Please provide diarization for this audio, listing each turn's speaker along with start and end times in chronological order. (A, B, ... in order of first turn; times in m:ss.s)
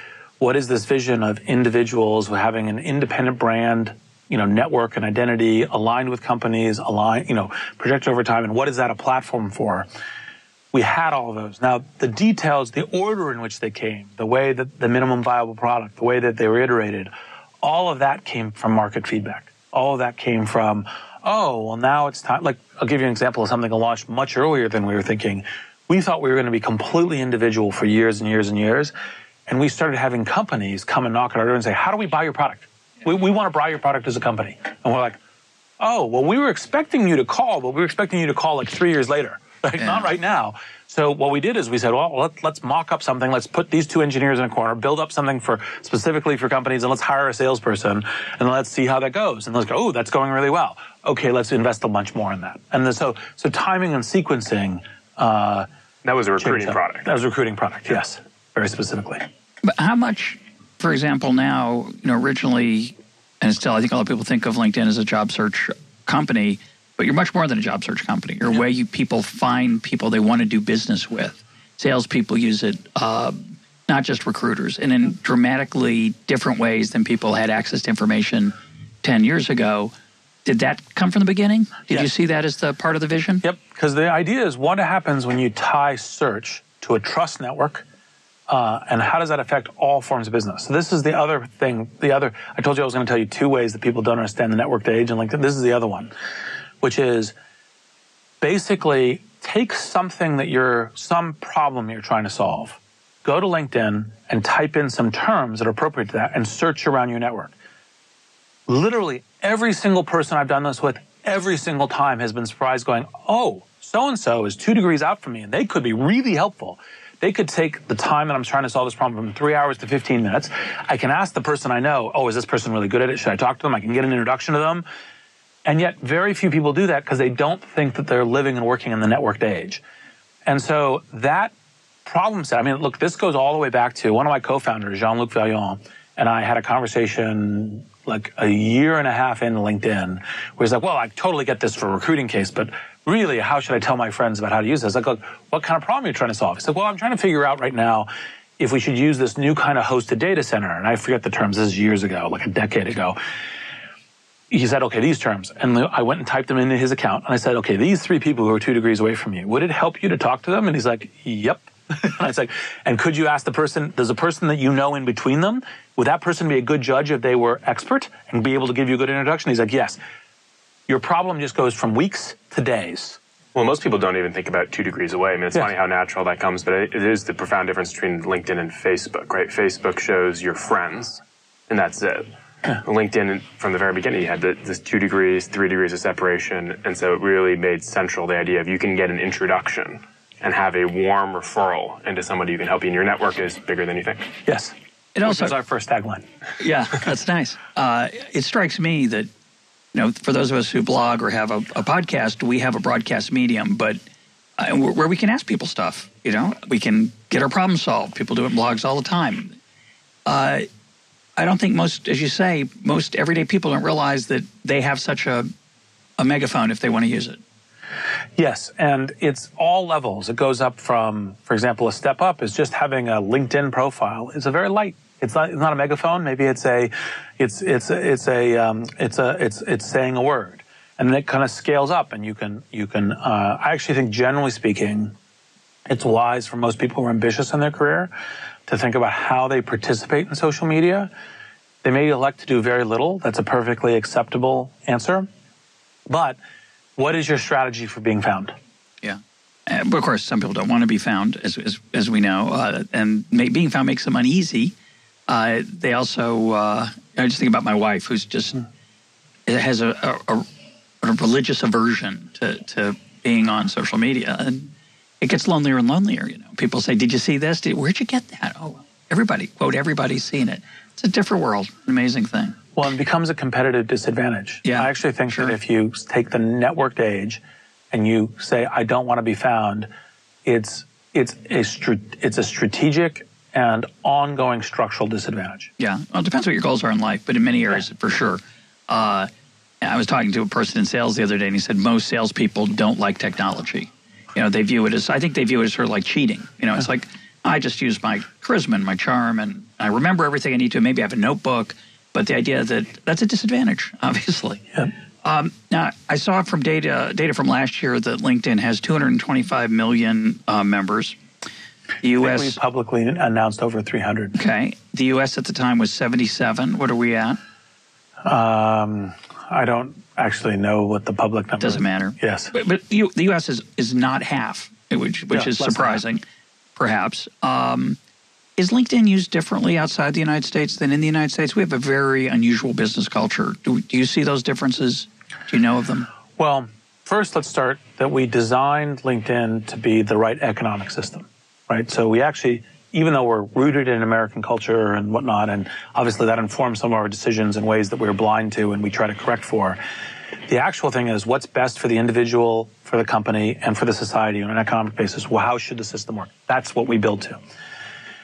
0:00.4-0:09.9 A
0:10.7-0:17.1 A
0:17.6-0:28.9 A
0:29.5-0:35.2 A
0:35.8-0:55.7 A
0:39.8-0:40.1 B
0:56.0-0:57.1 C
0:56.4-0:59.2 A
0:59.6-1:19.9 B
1:20.4-1:23.4 B
1:23.4-1:27.8 A
1:28.5-1:36.1 A
1:36.8-1:37.4 A
1:38.4-1:47.5 A
1:48.7-2:04.8 A
2:05.6-2:09.8 A
2:10.4-2:11.5 A
2:12.0-2:33.2 A
2:34.5-2:50.0 A
2:50.9-2:53.2 A
2:53.5-3:02.3 C
3:02.8-3:14.3 C
3:14.5-3:16.2 A
3:15.2-3:15.5 B
3:16.6-3:19.3 B
3:19.9-3:24.0 B
3:24.6-3:29.6 B
3:30.3-3:30.7 B
3:31.4-3:35.5 B
3:36.2-3:37.4 B
3:38.4-3:55.2 A
3:55.9-3:58.1 A
3:58.7-4:01.1 A
4:01.8-4:05.3 A
4:06.1-4:06.4 A
4:07.0-4:08.6 A
4:09.0-4:14.7 B
4:15.3-4:18.7 B
4:19.5-4:20.5 B
4:21.0-4:32.6 B
4:32.8-4:37.4 A
4:34.6-4:35.5 B
4:37.9-4:39.9 A
4:40.4-4:45.7 A
4:45.8-4:49.3 B
4:49.8-5:04.7 B
5:05.2-5:11.2 B
5:12.0-5:12.6 B
5:12.2-5:14.4 A
5:14.4-5:17.4 B
5:18.2-5:22.5 A
5:21.6-5:26.2 B
5:25.3-5:26.0 A
5:26.8-5:28.0 B
5:28.6-5:36.1 B
5:36.4-5:49.8 A
5:50.5-5:57.4 A